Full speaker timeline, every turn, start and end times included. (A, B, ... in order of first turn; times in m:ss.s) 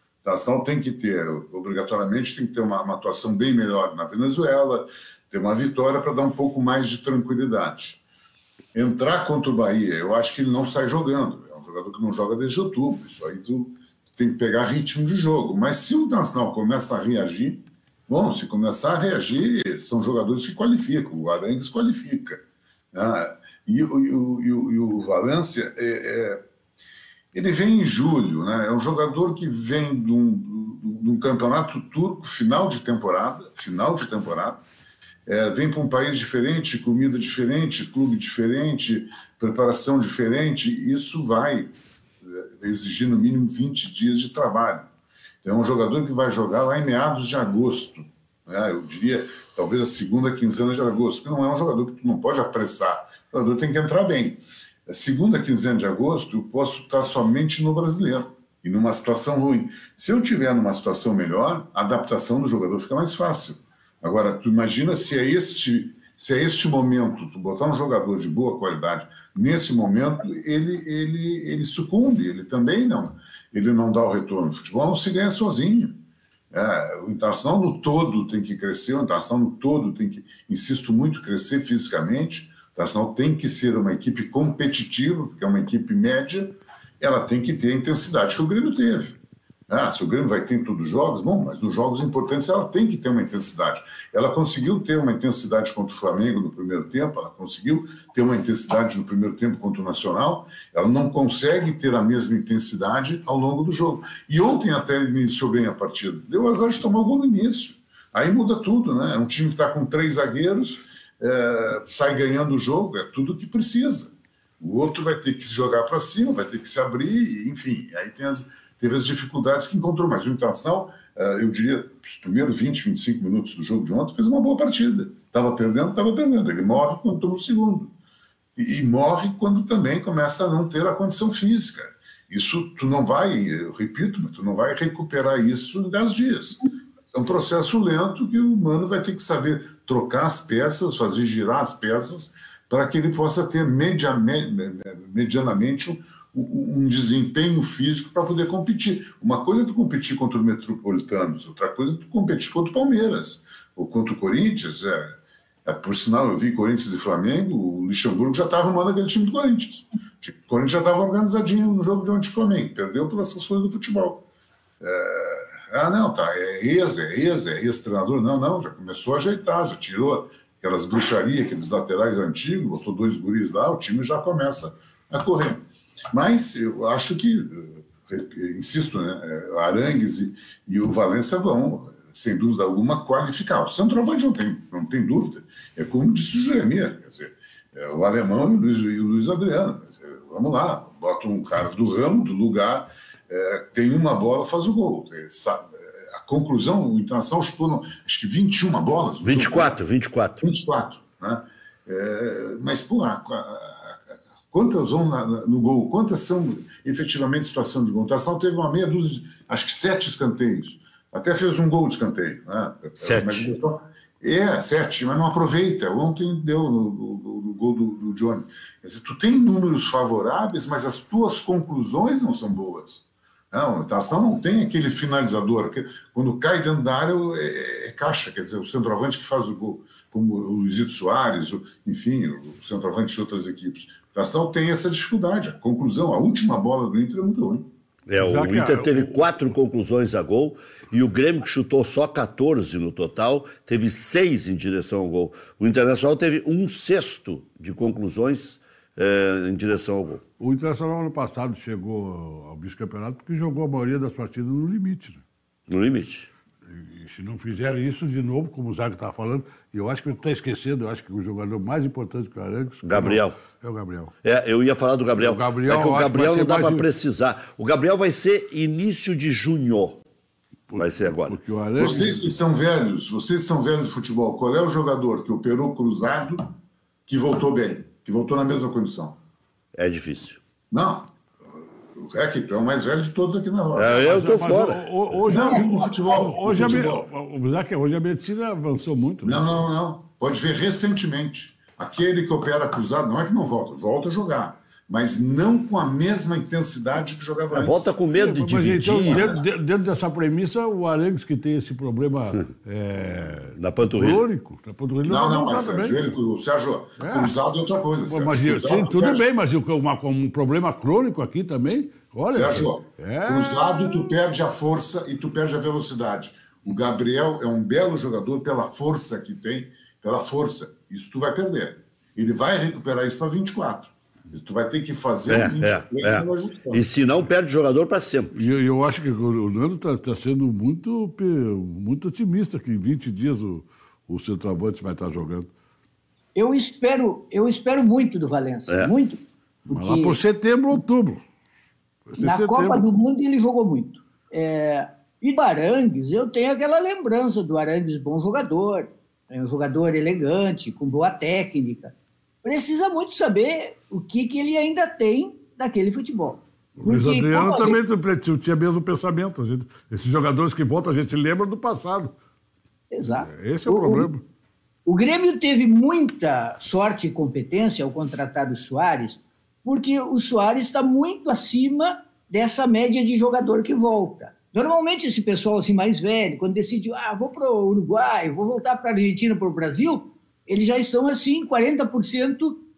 0:00.2-0:08.0 A
0:08.7-0:22.4 A
0:22.9-0:26.4 A
0:27.3-0:34.6 A
0:35.3-0:41.7 A
0:42.2-0:44.8 A
0:45.4-1:15.9 A
1:16.5-2:07.9 A
2:08.6-2:16.6 A
2:17.1-2:35.1 A
2:35.6-2:44.2 A
2:44.8-3:19.8 A
3:19.2-3:20.4 B
3:20.4-3:24.0 A
3:24.5-3:57.7 A
3:33.0-3:33.5 B
3:58.1-4:10.2 B
3:58.2-3:59.5 C
4:10.4-4:15.2 C
4:15.7-4:16.3 B
4:16.7-4:24.1 C
4:22.8-4:23.4 B
4:24.2-4:30.0 B
4:25.2-4:26.8 C
4:30.7-4:32.4 C
4:30.8-4:31.4 B
4:31.8-4:36.4 A
4:37.1-4:39.2 A
4:39.7-4:40.4 B
4:40.7-4:41.1 A
4:42.0-4:44.1 A
4:43.7-4:44.9 B
4:44.0-4:49.5 C
4:45.2-4:47.0 A
4:49.2-4:57.9 A
4:57.5-4:59.3 B
4:58.1-5:06.2 C
4:59.0-4:59.4 A
5:03.5-5:04.2 B
5:05.0-5:09.2 A
5:07.0-5:07.4 C
5:08.0-5:14.2 C
5:12.3-5:26.8 A
5:25.3-5:28.4 B
5:28.3-5:35.5 C
5:36.4-5:39.2 D
5:39.7-5:41.2 C
5:39.7-5:40.2 D
5:42.1-5:42.8 C
5:42.2-5:51.9 D
5:52.4-5:57.8 D
5:56.8-6:02.1 C
6:02.9-6:04.1 D
6:03.2-6:04.2 C
6:04.9-6:22.6 D